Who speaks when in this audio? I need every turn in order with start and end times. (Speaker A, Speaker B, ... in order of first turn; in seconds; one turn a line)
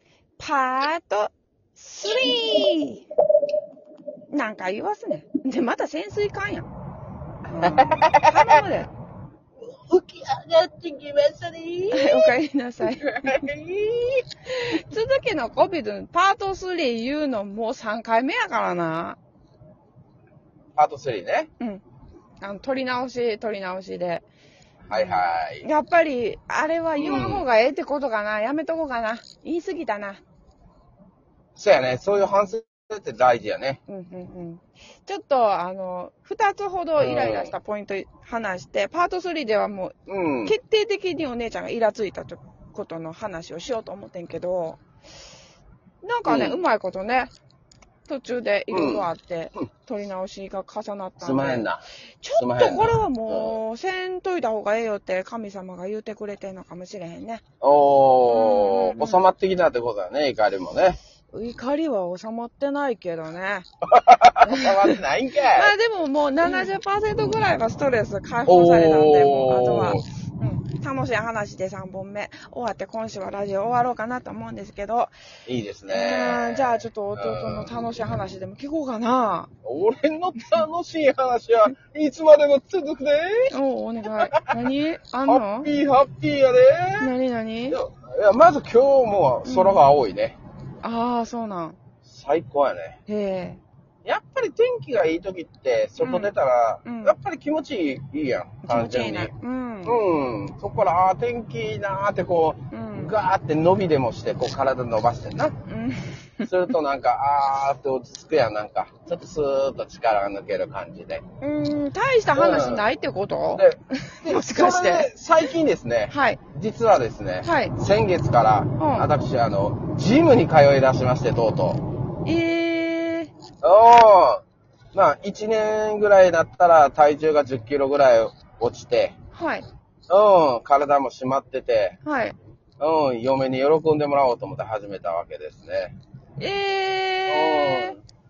Speaker A: 0.4-3.0
Speaker B: 2.1-2.4
Speaker A: 4.3-6.7
Speaker A: 7.5-8.9
Speaker B: 7.6-8.6
Speaker B: 9.6-14.2
Speaker A: 11.9-13.4
Speaker A: 14.4-19.2
Speaker B: 20.7-21.5
Speaker A: 22.4-24.2
Speaker B: 24.9-25.7
Speaker A: 24.9-30.2
Speaker B: 26.9-27.4
Speaker B: 31.6-33.8
Speaker A: 32.1-32.5
Speaker A: 33.9-44.8
Speaker B: 37.0-37.5
Speaker B: 40.1-40.6
Speaker A: 46.0-47.3
Speaker B: 46.2-46.6
Speaker A: 48.0-51.7
Speaker B: 48.7-49.1
Speaker B: 51.2-53.6
Speaker A: 52.2-57.4
Speaker B: 57.6-61.0
Speaker A: 58.2-59.3
Speaker A: 61.3-63.7
Speaker B: 63.9-65.7
Speaker A: 64.4-65.0
Speaker A: 65.5-75.1
Speaker B: 66.4-67.5
Speaker B: 68.5-70.0
Speaker B: 75.5-77.8
Speaker A: 75.9-79.5
Speaker B: 79.6-83.5
Speaker A: 83.5-85.7
Speaker B: 84.0-84.7
Speaker B: 85.2-87.1
Speaker A: 87.0-87.8
Speaker B: 87.7-90.4
Speaker A: 89.4-89.8
Speaker A: 90.8-91.8
Speaker B: 92.0-93.0
Speaker A: 93.1-93.6
Speaker B: 94.0-99.3
Speaker A: 96.0-96.3
Speaker A: 96.8-97.2
Speaker A: 98.6-100.0
Speaker B: 99.8-105.5
Speaker A: 102.7-103.1
Speaker A: 105.4-106.7
Speaker B: 106.4-111.2
Speaker A: 111.4-115.1
Speaker B: 112.3-112.8
Speaker B: 113.5-121.8
Speaker A: 116.1-116.4
Speaker A: 117.4-117.7
Speaker A: 118.8-119.1
Speaker A: 122.2-123.3
Speaker B: 123.6-124.4
Speaker B: 124.9-129.1
Speaker A: 129.3-129.7
Speaker B: 130.1-132.0
Speaker A: 132.0-132.3
Speaker B: 132.8-135.9
Speaker A: 136.4-138.0
Speaker B: 137.3-138.0